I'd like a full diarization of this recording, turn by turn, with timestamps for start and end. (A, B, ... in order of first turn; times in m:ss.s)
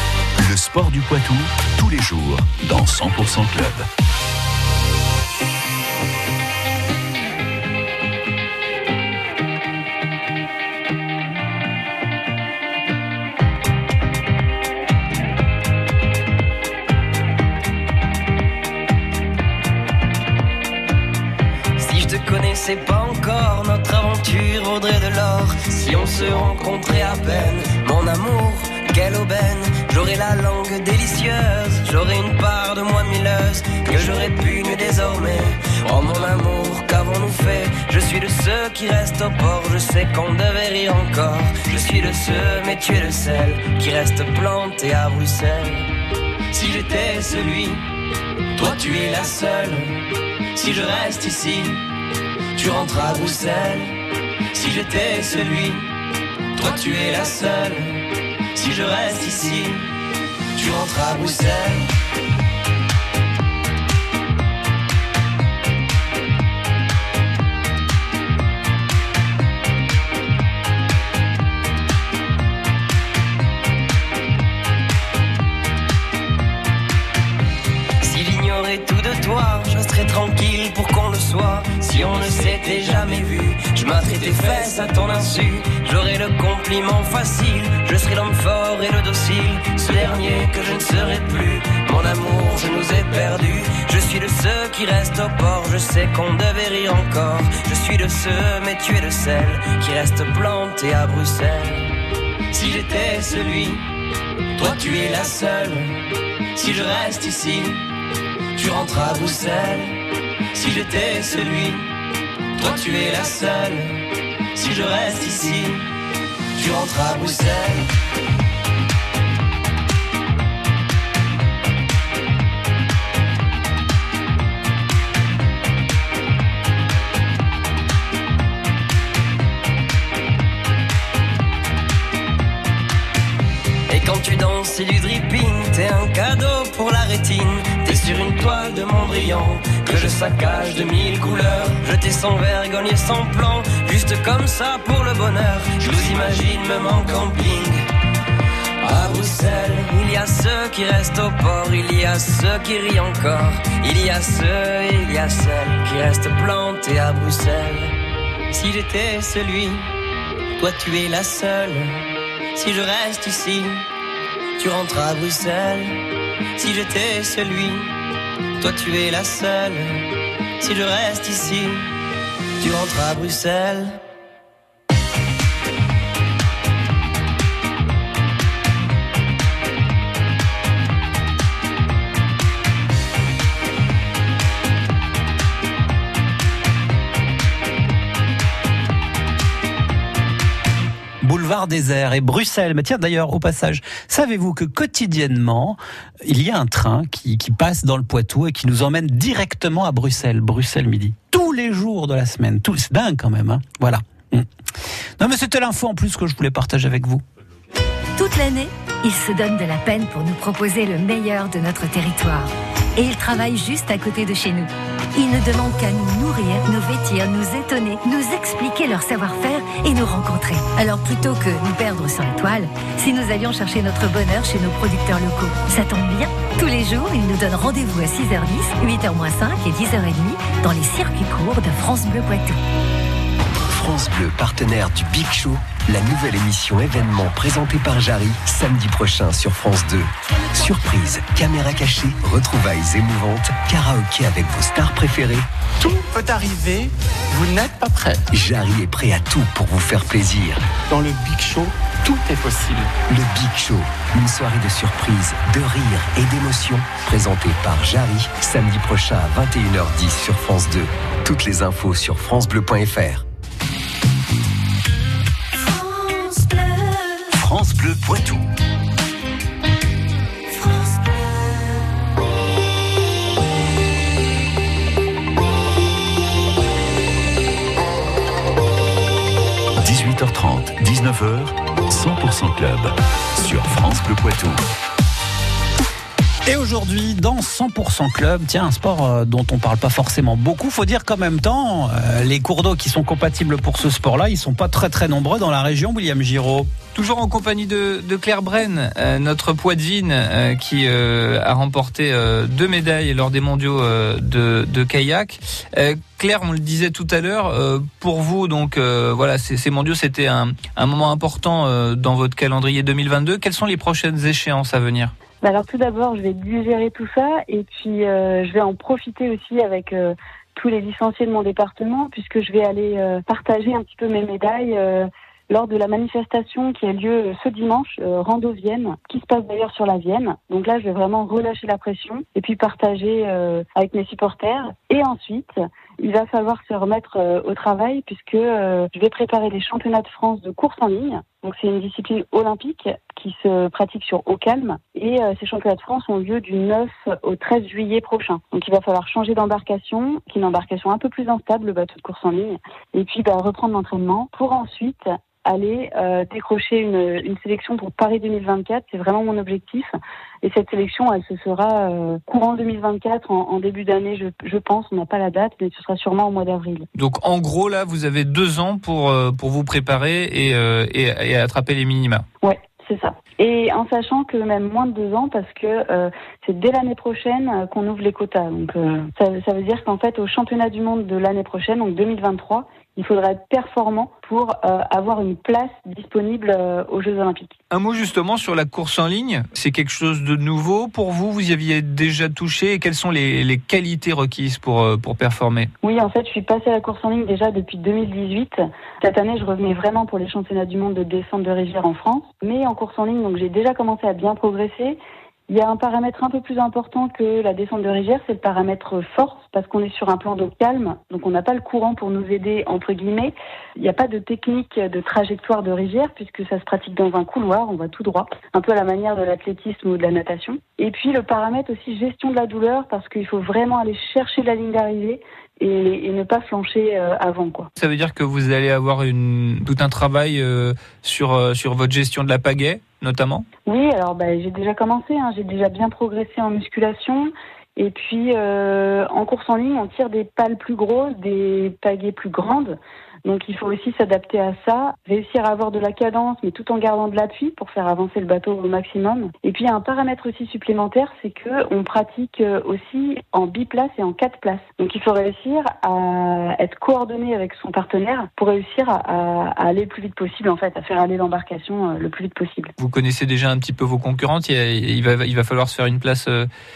0:00.4-0:03.8 A
0:21.8-0:45.9 B
0:46.5-0:47.9 B
0:48.5-0:51.8 B
0:52.5-0:54.0 B
0:54.5-0:55.9 B
0:56.6-0:59.9 B
1:00.5-1:01.9 B
1:18.0-1:42.0 B
1:42.5-1:43.9 B
1:44.6-1:47.9 B
1:48.5-1:50.0 B
1:50.5-1:51.9 B
1:52.6-1:55.9 B
1:56.5-1:57.9 B
2:13.9-2:27.8 B
2:28.8-2:38.0 B
2:38.5-2:39.9 B
2:40.6-2:43.9 B
2:44.6-2:46.0 B
2:46.6-2:47.9 B
2:48.6-2:50.1 B
2:50.6-2:51.9 B
2:52.6-2:54.0 B
3:11.2-3:24.5 C
3:25.2-3:27.2 C
3:28.2-3:52.6 D
3:53.7-4:05.4 E
4:05.8-4:08.3 F
4:08.3-4:10.6 E
4:10.9-4:12.9 F
4:13.1-4:23.2 E
4:25.7-4:27.3 D
4:27.3-4:28.4 A
4:30.5-4:31.1 D
4:39.8-4:44.6 A
4:46.5-4:56.7 C
4:56.9-5:15.1 G
5:15.4-5:59.9 H
6:00.4-6:06.9 H
6:06.9-6:12.2 G
6:12.4-6:27.5 H
6:27.7-6:35.7 G
6:35.8-6:45.0 H
6:45.5-7:07.7 H
7:07.8-7:13.4 G
7:13.6-7:42.7 H
7:42.8-7:46.5 G